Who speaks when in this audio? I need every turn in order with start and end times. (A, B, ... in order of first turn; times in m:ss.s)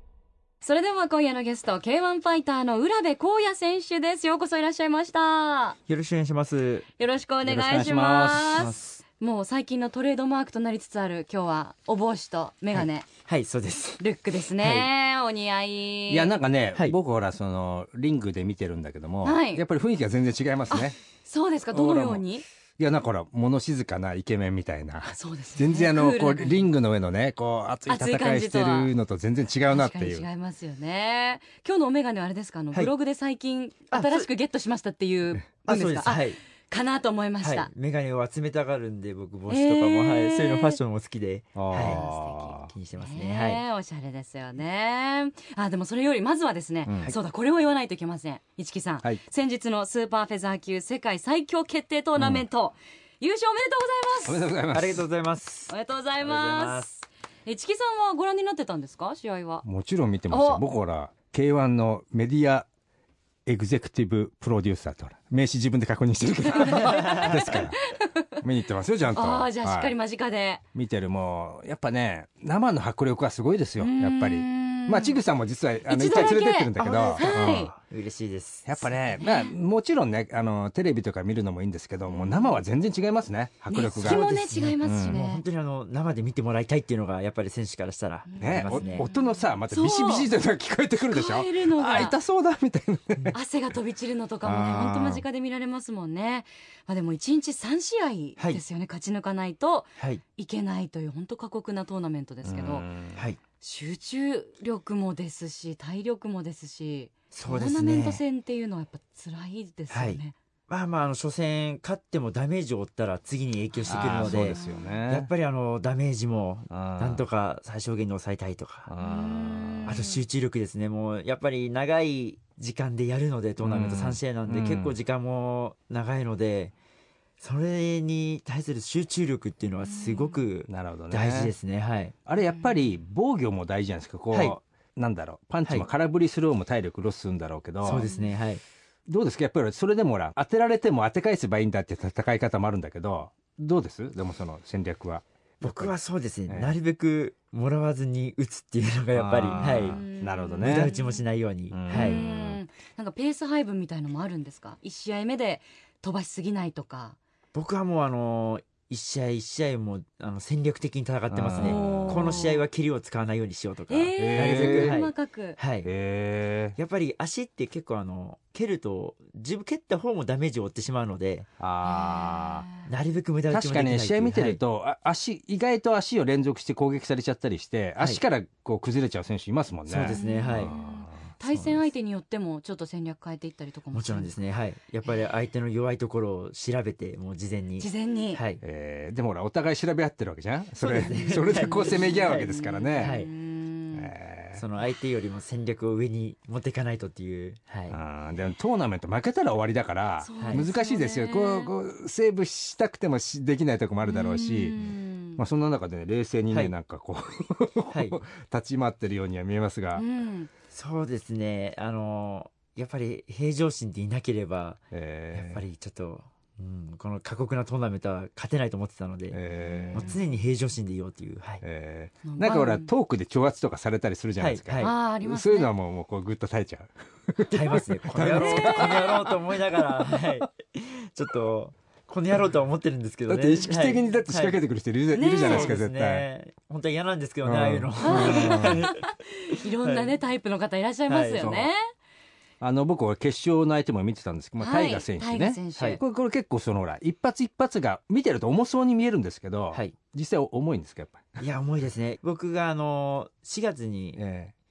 0:00.6-0:05.8 A
0:05.9-0:06.9 B
0:07.0-0:13.1 A
0:07.4-0:08.7 C
0:08.6-0:09.0 B
0:12.7-0:14.0 B
0:14.0-0:16.3 A
0:14.6-0:14.9 B
0:16.1-0:21.0 C
0:19.2-0:19.6 A
0:20.7-0:22.4 A
0:21.7-0:22.2 C
0:22.8-0:30.2 C
0:25.0-0:26.7 A
0:27.9-0:28.9 A
0:29.7-0:37.7 A
0:33.9-0:34.3 B
0:35.6-0:36.4 B
0:37.4-0:42.0 B
0:39.5-0:40.8 A
0:41.5-0:42.7 C
0:41.7-0:54.4 A
0:42.7-0:43.6 B
0:46.8-0:47.1 C
0:52.2-0:52.4 C
0:54.2-0:55.0 C
0:54.7-0:56.9 B
0:55.7-0:59.6 A
0:59.6-1:02.7 C
1:00.3-1:00.6 A
1:03.4-1:07.8 C
1:06.5-1:08.3 A
1:08.4-1:09.9 C
1:09.1-1:10.6 A
1:10.7-1:17.7 C
1:13.8-1:15.2 A
1:15.9-1:17.7 A
1:16.1-1:18.7 B
1:18.6-1:24.3 C
1:19.2-1:19.5 A
1:22.1-1:22.6 A
1:23.7-1:25.4 A
1:24.0-1:29.1 B
1:24.8-1:25.2 C
1:28.3-1:30.3 A
1:28.4-1:33.4 C
1:31.1-1:32.2 A
1:33.3-1:42.9 A
1:34.4-1:35.2 C
1:40.0-1:40.2 B
1:42.4-1:43.2 C
1:43.6-1:50.3 A
1:47.3-1:48.2 B
1:49.9-1:58.9 B
1:53.7-1:54.9 A
1:53.9-1:55.3 C
1:56.7-1:57.2 C
1:58.9-2:00.0 C
1:59.0-2:00.2 A
1:59.8-2:06.7 B
2:03.6-2:05.0 C
2:07.4-2:12.1 B
2:09.9-2:10.4 A
2:10.7-2:11.5 C
2:12.2-2:18.1 C
2:17.8-2:18.6 B
2:18.0-2:18.3 A
2:19.1-2:25.9 C
2:25.6-2:30.0 B
2:26.5-2:26.7 C
2:29.1-2:30.9 C
2:29.7-2:31.2 A
2:30.6-2:32.2 B
2:31.7-2:32.6 C
2:31.9-2:37.2 A
2:37.5-2:45.9 B
2:41.3-2:42.4 C
2:41.6-2:42.6 A
2:43.9-2:45.6 A
2:44.2-2:45.0 C
2:45.8-2:46.8 C
2:46.8-2:51.5 B
2:51.6-2:52.7 C
2:51.8-2:52.9 A
2:52.8-2:54.6 B
2:53.5-3:01.2 C
2:59.9-3:00.7 B
3:00.1-3:04.3 A
3:01.4-3:01.8 B
3:03.9-3:08.6 B
3:07.8-3:08.4 A
3:08.6-3:13.2 C
3:10.8-3:13.3 B
3:11.2-3:14.1 A
3:13.9-3:14.6 C
3:14.5-3:18.0 B
3:17.9-3:24.8 C
3:20.2-3:21.7 A
3:24.0-3:25.4 A
3:25.4-3:30.0 C
3:27.9-3:28.2 B
3:29.9-3:30.5 A
3:30.7-3:39.4 B
3:34.9-3:35.6 C
3:39.3-3:40.2 C
3:39.6-3:40.2 A
3:39.9-3:41.6 B
3:41.6-3:50.2 C
3:42.2-3:42.9 A
3:44.4-3:44.9 B
3:44.8-3:45.7 A
3:47.4-3:54.6 B
3:48.3-3:49.3 A
3:53.3-3:56.2 C
3:55.1-3:55.7 A
3:55.2-4:00.2 B
3:57.4-3:58.9 C
3:58.0-4:01.9 A
4:01.1-4:01.5 B
4:01.4-4:01.7 C
4:02.6-4:11.4 C
4:04.6-4:06.0 A
4:11.4-4:14.2 B
4:14.2-4:14.5 C